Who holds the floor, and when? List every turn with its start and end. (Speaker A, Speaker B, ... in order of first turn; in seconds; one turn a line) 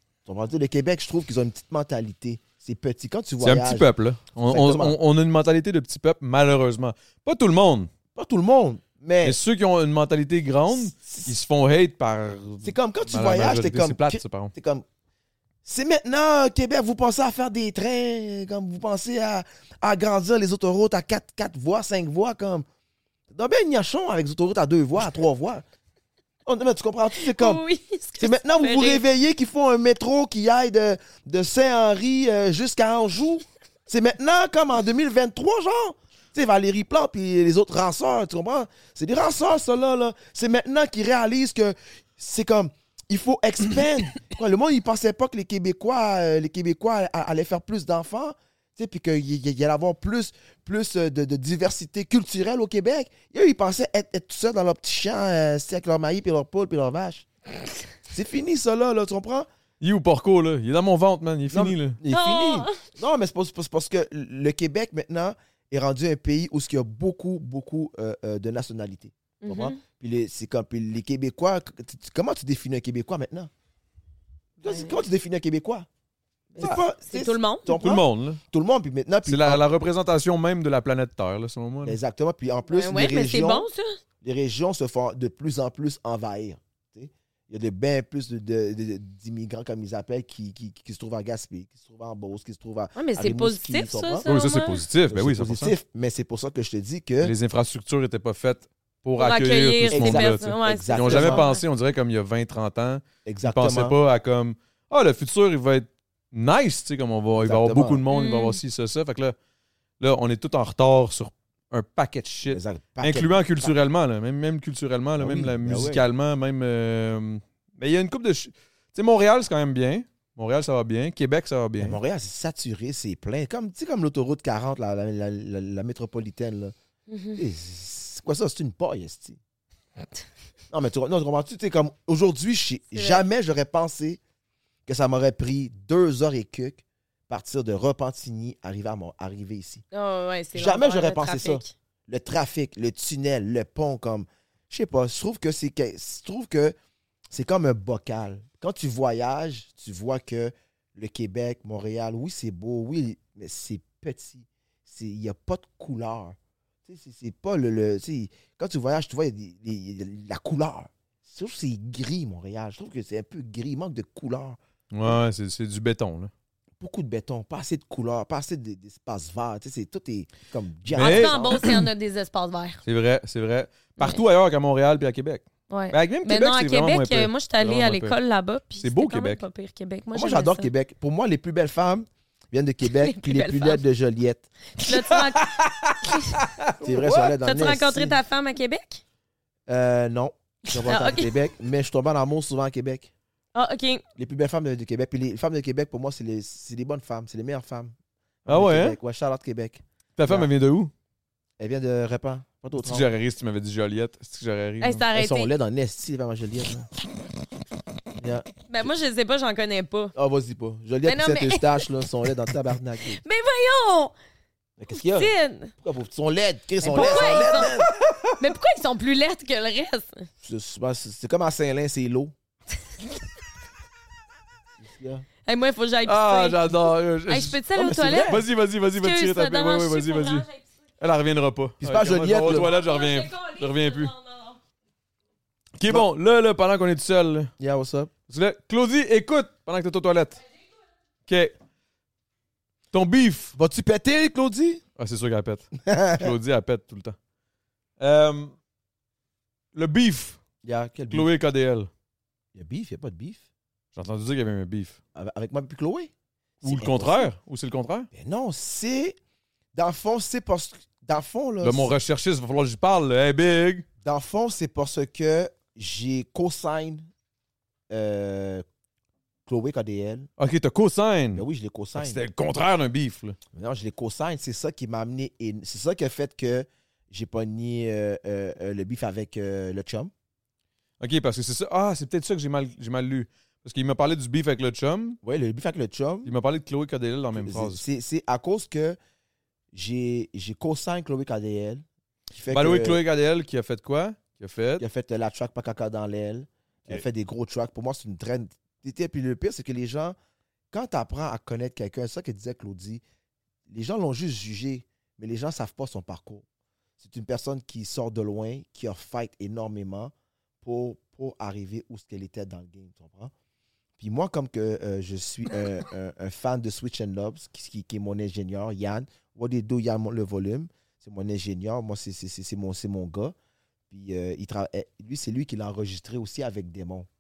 Speaker A: 0.2-3.9
Speaker B: 3.4-7.9
Speaker A: 4.5-5.0
Speaker A: 8.2-9.4
Speaker B: 9.2-14.5
Speaker A: 10.7-11.3
Speaker A: 12.6-14.8
Speaker A: 15.6-22.7
Speaker A: 23.3-25.6
Speaker A: 26.5-27.6
Speaker C: 27.1-29.0
Speaker A: 28.2-57.3
Speaker A: 58.1-59.5
Speaker B: 59.8-62.0
Speaker A: 61.5-73.5
Speaker C: 62.1-62.8
Speaker C: 69.4-69.8
Speaker C: 74.6-75.0
Speaker A: 74.6-75.9
Speaker C: 76.5-77.7
Speaker A: 76.6-79.6
Speaker B: 77.7-78.4
Speaker B: 79.2-82.0
Speaker A: 81.8-83.7
Speaker C: 82.7-84.0
Speaker A: 84.2-94.3
Speaker C: 93.0-94.8
Speaker B: 94.3-95.7
Speaker A: 95.1-97.3
Speaker B: 97.2-109.3
Speaker C: 99.2-101.6
Speaker A: 99.9-101.5
Speaker A: 103.3-104.0
Speaker A: 107.4-108.0
Speaker C: 108.1-108.6
Speaker B: 110.0-122.0
Speaker A: 112.5-113.8
Speaker A: 115.2-116.0
Speaker A: 121.8-126.8
Speaker C: 127.1-127.4
Speaker A: 127.3-129.4
Speaker A: 130.7-134.2
Speaker C: 132.9-133.2
Speaker A: 134.9-139.8
Speaker C: 139.9-141.7
Speaker A: 140.5-146.8
Speaker A: 147.3-165.2
Speaker B: 164.9-166.3
Speaker A: 166.8-171.6
Speaker B: 170.9-171.9
Speaker C: 170.9-172.8
Speaker B: 172.8-178.2
Speaker C: 175.7-180.7
Speaker B: 178.8-179.4
Speaker A: 180.1-184.5
Speaker C: 182.9-183.8
Speaker C: 184.8-185.5
Speaker B: 184.9-187.3
Speaker A: 186.8-188.2
Speaker C: 187.4-189.0
Speaker A: 189.7-193.1
Speaker C: 190.8-191.3
Speaker C: 193.6-194.0
Speaker A: 194.2-200.5
Speaker B: 198.5-199.0
Speaker B: 200.2-200.9
Speaker A: 201.6-203.1
Speaker B: 202.8-205.1
Speaker C: 204.8-205.5
Speaker A: 205.1-206.9
Speaker A: 208.2-208.9
Speaker C: 208.7-210.1
Speaker A: 210.2-213.2
Speaker C: 211.1-211.8
Speaker C: 213.1-214.1
Speaker A: 214.8-217.9
Speaker C: 215.1-215.7
Speaker C: 216.8-217.7
Speaker B: 216.9-218.2
Speaker C: 218.4-220.3
Speaker A: 220.4-222.3
Speaker A: 224.8-225.3
Speaker C: 225.5-228.4
Speaker B: 226.1-227.6
Speaker A: 227.8-228.5
Speaker B: 228.3-230.5
Speaker C: 228.9-230.7
Speaker B: 231.0-234.1
Speaker A: 231.8-232.7
Speaker C: 232.4-234.6
Speaker B: 235.8-237.5
Speaker A: 237.6-238.1
Speaker B: 238.3-240.4
Speaker B: 241.3-241.6
Speaker B: 242.9-243.5
Speaker A: 243.6-244.8
Speaker B: 245.0-247.2
Speaker A: 245.9-246.3
Speaker B: 248.0-248.6
Speaker B: 249.8-250.4
Speaker A: 250.6-251.3
Speaker B: 251.1-251.9
Speaker A: 252.6-253.5
Speaker B: 253.9-255.0
Speaker A: 255.2-257.3
Speaker B: 256.6-258.1
Speaker A: 258.1-259.2
Speaker A: 259.7-261.9
Speaker B: 261.6-263.9
Speaker A: 264.0-267.1
Speaker A: 267.9-268.6
Speaker A: 269.5-270.3
Speaker B: 270.4-271.4
Speaker A: 271.3-272.2
Speaker B: 272.0-273.4
Speaker A: 273.5-280.1
Speaker B: 281.0-285.2
Speaker A: 285.2-286.3
Speaker B: 286.2-287.8
Speaker A: 287.4-289.0
Speaker A: 289.7-293.0
Speaker B: 292.5-294.8
Speaker A: 294.8-300.2
Speaker A: 300.7-303.0
Speaker A: 303.7-306.4
Speaker A: 307.0-313.3
Speaker A: 314.0-323.4
Speaker A: 323.9-327.1